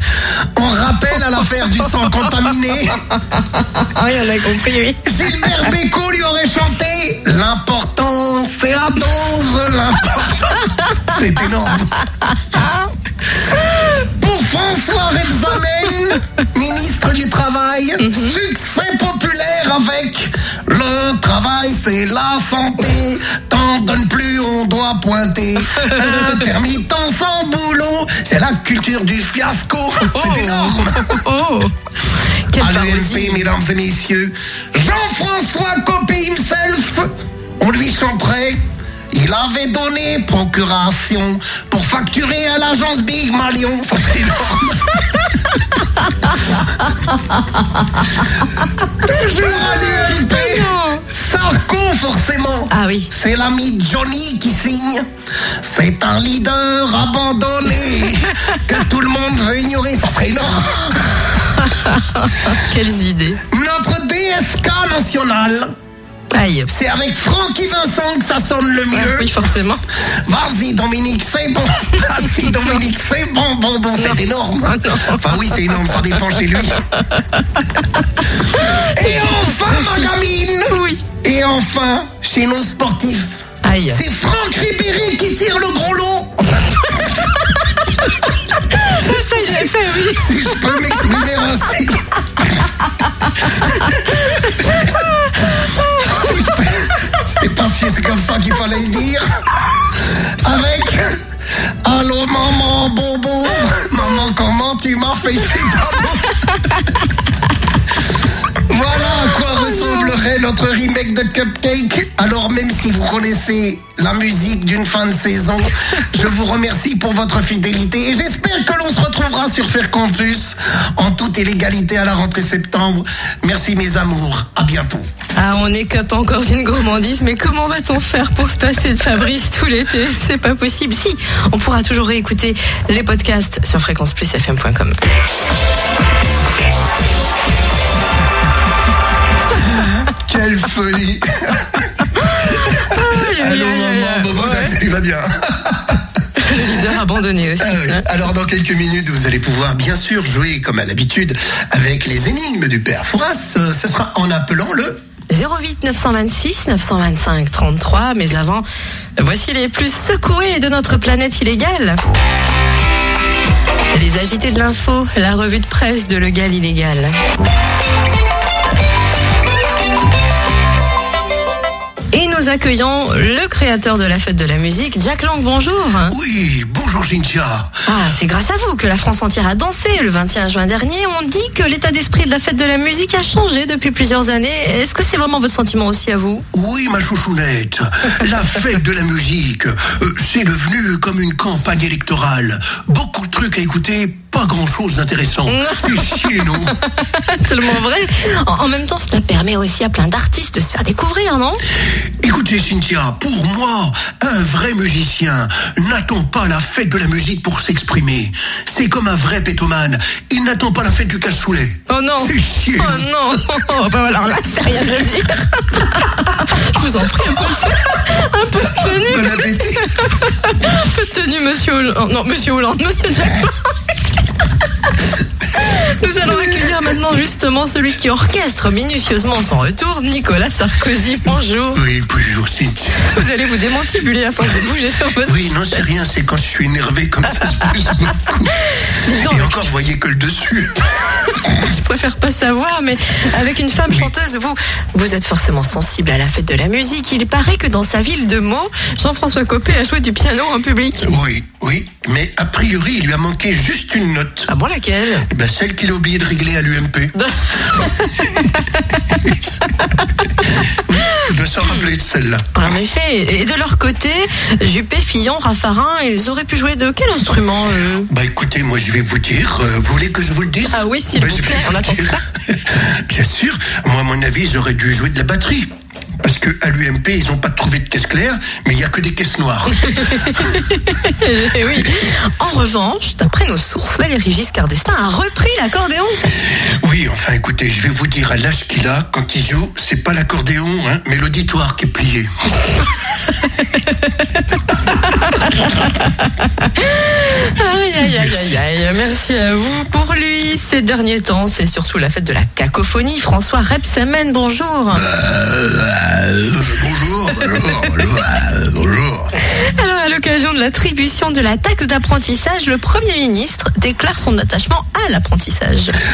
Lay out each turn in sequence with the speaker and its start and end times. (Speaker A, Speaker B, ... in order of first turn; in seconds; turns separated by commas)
Speaker A: 0.5-3.0, Speaker B: 3.3-5.7, Speaker A: 5.0-12.0, Speaker B: 12.3-12.9, Speaker A: 13.5-31.2, Speaker B: 18.0-18.4, Speaker B: 25.8-26.4, Speaker B: 30.1-31.7, Speaker B: 32.5-33.4, Speaker A: 32.5-45.4, Speaker B: 46.9-48.5, Speaker A: 49.0-55.1, Speaker B: 49.1-51.0, Speaker B: 52.7-53.1, Speaker A: 55.6-61.0, Speaker B: 61.0-63.4, Speaker A: 63.5-65.7, Speaker B: 66.3-66.7, Speaker A: 66.7-69.3, Speaker B: 68.9-69.8, Speaker A: 70.2-76.8, Speaker B: 74.0-75.2, Speaker B: 75.8-77.6, Speaker A: 78.4-83.4, Speaker B: 78.5-80.0, Speaker B: 80.7-81.0, Speaker B: 83.6-84.0, Speaker A: 83.9-87.0, Speaker B: 88.7-90.8, Speaker A: 89.6-92.6, Speaker A: 93.6-94.9, Speaker B: 93.6-96.3, Speaker A: 96.0-101.2, Speaker A: 101.8-106.4, Speaker A: 108.7-125.1, Speaker B: 109.5-110.1, Speaker B: 125.3-135.0, Speaker A: 139.6-146.8, Speaker B: 142.3-144.7, Speaker B: 146.4-148.1, Speaker A: 147.6-155.0, Speaker B: 155.3-158.7, Speaker B: 159.2-162.0, Speaker B: 163.9-167.2, Speaker B: 172.1-176.1, Speaker A: 176.1-177.7, Speaker B: 177.9-186.4, Speaker A: 186.5-196.8, Speaker B: 195.5-201.6, Speaker A: 202.2-213.4, Speaker B: 211.9-224.0, Speaker A: 218.7-219.8, Speaker B: 225.5-231.8, Speaker A: 226.2-226.8, Speaker A: 231.7-233.2, Speaker B: 233.0-235.8, Speaker A: 235.2-238.5, Speaker B: 238.9-239.7, Speaker A: 239.2-241.4, Speaker B: 241.6-251.1, Speaker A: 251.0-254.5, Speaker B: 254.5-255.3, Speaker A: 255.3-257.1, Speaker B: 257.1-259.0, Speaker A: 257.7-258.5, Speaker A: 259.2-259.6, Speaker A: 260.6-262.5, Speaker B: 262.5-268.1, Speaker A: 268.1-275.7, Speaker B: 270.7-272.2, Speaker A: 276.2-280.5, Speaker B: 279.9-286.2, Speaker A: 281.6-281.9, Speaker A: 286.8-292.7, Speaker B: 295.1-305.1, Speaker A: 298.0-298.6, Speaker A: 304.9-309.3, Speaker B: 309.5-316.0